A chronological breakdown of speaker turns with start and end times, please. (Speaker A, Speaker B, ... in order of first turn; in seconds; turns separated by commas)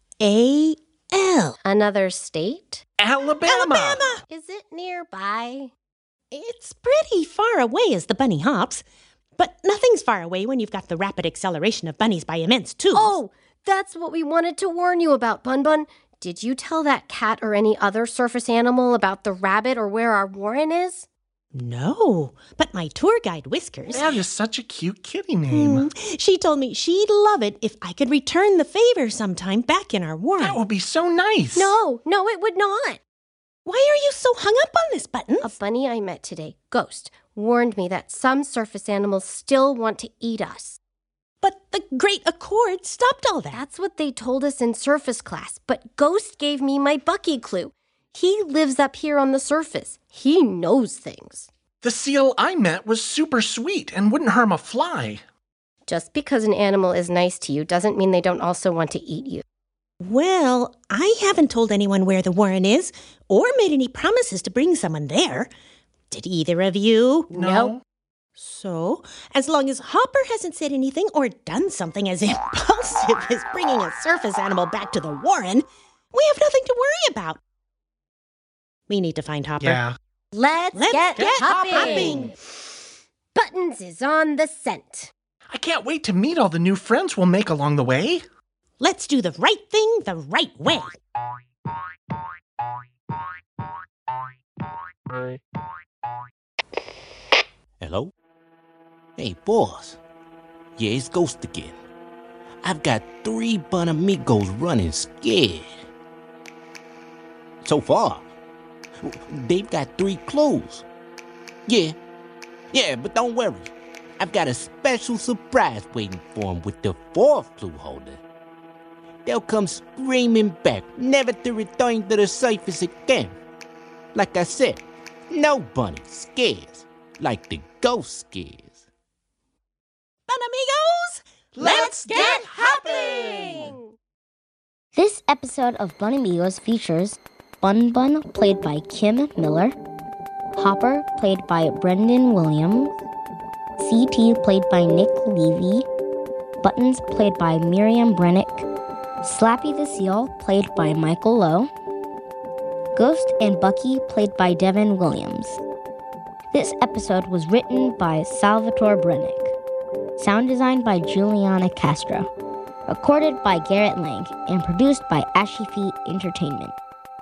Speaker A: 0.2-1.6, Speaker B: 1.6-2.8, Speaker C: 3.0-4.1, Speaker A: 3.4-4.2, Speaker B: 4.3-5.7, Speaker A: 6.3-8.8, Speaker A: 9.4-13.2, Speaker B: 12.9-21.1, Speaker A: 21.5-24.2, Speaker C: 23.9-25.9, Speaker A: 25.5-30.6, Speaker C: 30.4-31.7, Speaker B: 31.5-33.0, Speaker A: 33.6-35.5, Speaker B: 35.4-40.8, Speaker A: 41.4-43.6, Speaker B: 43.5-51.5, Speaker C: 51.8-55.2, Speaker B: 55.9-59.4, Speaker A: 60.0-65.5, Speaker A: 66.1-67.5, Speaker C: 67.3-67.8, Speaker B: 67.3-67.7, Speaker A: 68.4-77.4, Speaker A: 78.9-79.8, Speaker C: 79.6-80.0, Speaker B: 80.3-82.3, Speaker A: 80.7-82.3, Speaker C: 81.2-82.0, Speaker B: 83.3-85.1, Speaker C: 85.5-88.2, Speaker A: 88.8-91.0, Speaker D: 97.8-98.1, Speaker D: 99.2-100.0, Speaker D: 100.8-101.8, Speaker D: 102.6-105.7, Speaker D: 107.6-108.2, Speaker D: 109.0-110.8, Speaker D: 111.7-112.0, Speaker D: 112.7-118.2, Speaker D: 119.2-123.3, Speaker D: 124.1-128.8, Speaker A: 130.3-132.9, Speaker C: 131.6-133.4, Speaker B: 132.1-133.8, Speaker E: 134.9-139.7, Speaker E: 140.6-142.9, Speaker E: 143.8-145.8, Speaker E: 146.6-148.7, Speaker E: 149.2-151.7, Speaker E: 152.9-155.6, Speaker E: 156.5-159.5, Speaker E: 160.2-162.3, Speaker E: 162.9-166.7